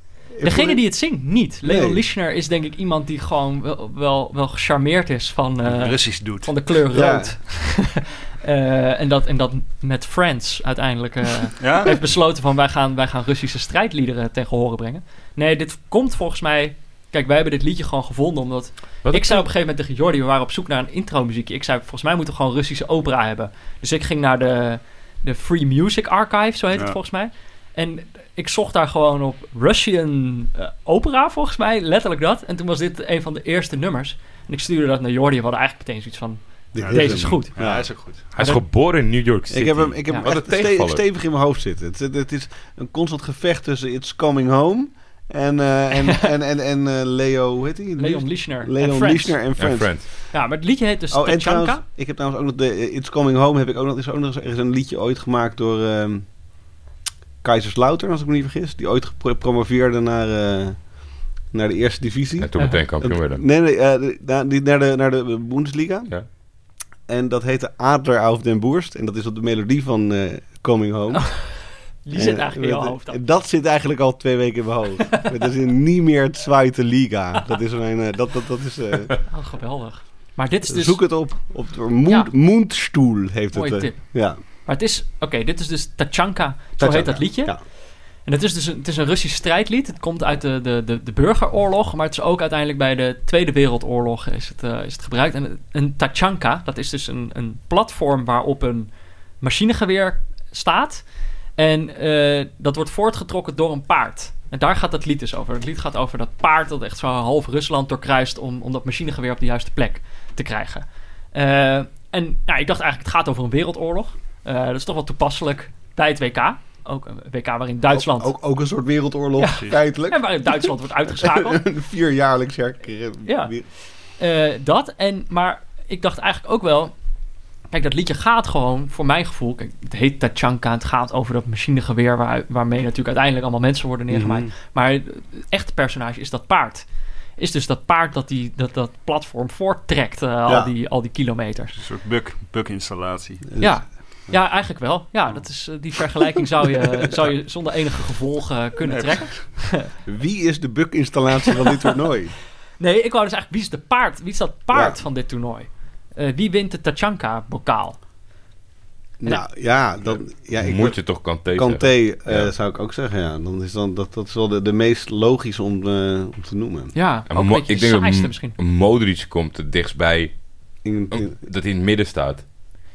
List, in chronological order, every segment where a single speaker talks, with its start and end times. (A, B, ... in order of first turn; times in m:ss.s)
0:00.3-0:00.8 A
0:00.4-0:37.5 B
0:01.6-0:02.0 A
0:05.6-0:06.5 C
0:06.9-0:07.4 A
0:11.6-0:12.0 C
0:19.0-0:19.4 D
0:36.7-0:37.9 A
0:36.8-0:38.3 C
0:38.3-0:41.0 D
0:39.5-0:50.2 A
0:48.0-0:49.4 B
0:49.6-0:50.0 D
0:50.3-0:51.8 B
0:51.1-0:56.2 A
0:57.4-1:00.8 A
1:01.5-1:06.1 A
1:02.4-1:03.4 D
1:07.1-1:11.4 A
1:11.2-1:13.2 B
1:12.1-1:19.1 A
1:19.3-1:21.0 B
1:20.7-1:24.4 A
1:23.5-1:27.6 B
1:26.8-1:27.6 A
1:28.2-1:38.9 B
1:39.4-1:41.0 B
1:41.6-1:58.3 B
1:57.9-2:03.6 A
1:59.4-2:01.6 B
2:03.2-2:03.5 B
2:04.2-2:06.9 B
2:07.7-2:16.8 B
2:14.1-2:14.5 A
2:17.4-2:21.8 B
2:21.8-2:23.4 C
2:23.5-2:23.8 A
2:23.6-2:29.9 B
2:28.8-2:29.4 C
2:30.0-2:32.3 A
2:32.8-2:38.0 B
2:34.7-2:35.0 A
2:39.2-2:46.9 A
2:40.6-2:42.5 D
2:46.9-2:48.6 B
2:47.3-2:50.3 D
2:50.8-2:51.4 A
2:51.1-2:52.4 D